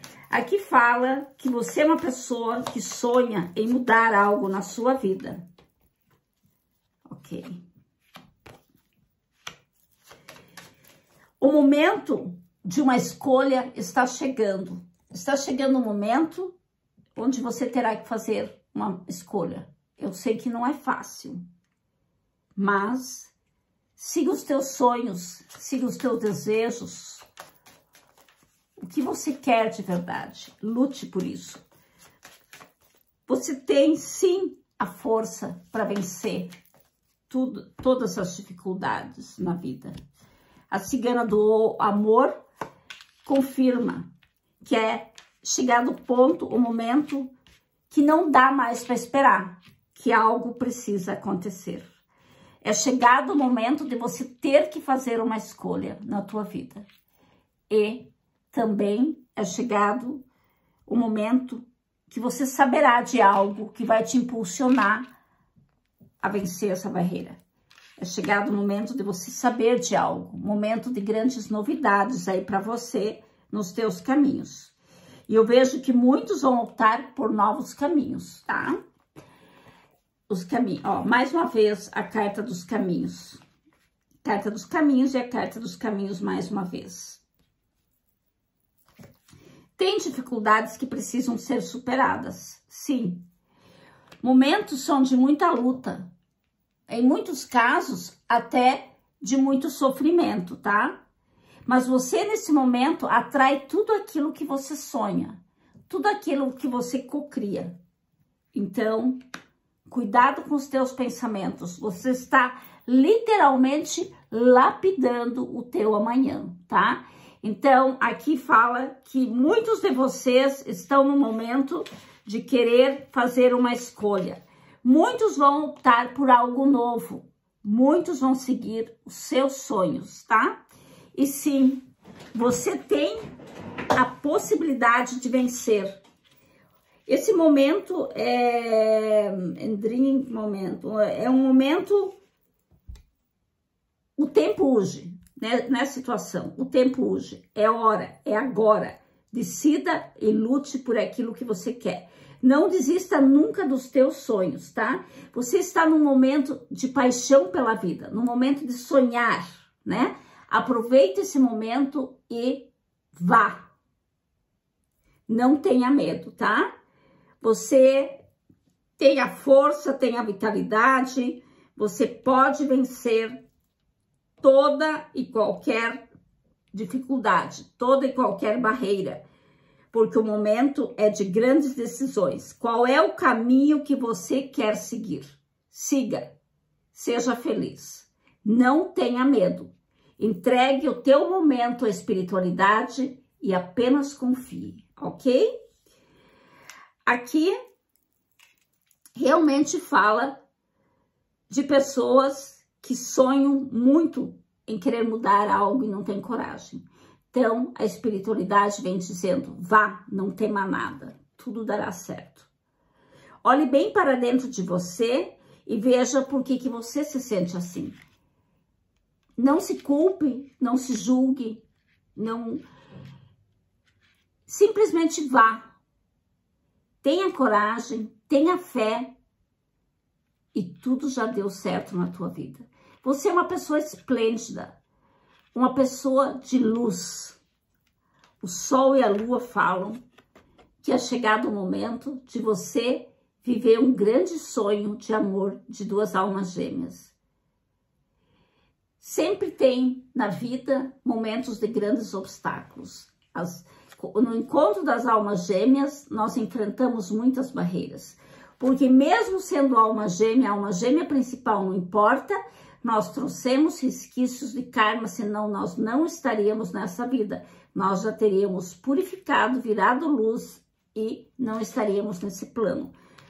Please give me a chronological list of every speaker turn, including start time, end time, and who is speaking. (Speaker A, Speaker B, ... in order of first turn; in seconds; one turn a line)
Speaker A: 0.3-5.5
Speaker A: 7.1-7.6
Speaker A: 11.4-16.5
Speaker A: 17.1-21.4
Speaker A: 22.6-23.3
Speaker A: 23.9-27.2
Speaker A: 28.8-31.6
Speaker A: 33.3-36.5
Speaker A: 37.3-39.9
Speaker A: 40.7-42.4
Speaker A: 43.2-44.1
Speaker A: 44.6-47.3
Speaker A: 47.9-51.9
Speaker A: 52.6-56.9
Speaker A: 57.7-60.2
Speaker A: 60.9-65.1
Speaker A: 66.2-67.4
Speaker A: 68.0-74.7
Speaker A: 75.3-78.8
Speaker A: 80.3-83.4
Speaker A: 84.2-87.2
Speaker A: 89.8-93.3
Speaker A: 94.2-96.1
Speaker A: 96.9-101.0
Speaker A: 101.7-107.8
Speaker A: 108.5-109.2
Speaker A: 109.9-130.6
Speaker A: 131.1-133.2
Speaker A: 133.9-136.0
Speaker A: 137.1-142.2
Speaker A: 144.2-163.7
Speaker A: 165.3-166.7
Speaker A: 167.4-168.2
Speaker A: 169.0-173.4
Speaker A: 174.4-176.1
Speaker A: 176.7-179.2
Speaker A: 179.9-186.2
Speaker A: 186.9-195.5
Speaker A: 197.1-197.5
Speaker A: 199.2-200.4
Speaker A: 201.5-212.5
Speaker A: 213.4-218.0
Speaker A: 219.4-221.6
Speaker A: 222.1-222.6
Speaker A: 224.5-225.7
Speaker A: 227.0-229.1
Speaker A: 230.5-234.7
Speaker A: 235.5-237.4
Speaker A: 238.4-240.0
Speaker A: 240.8-247.1
Speaker A: 249.0-272.9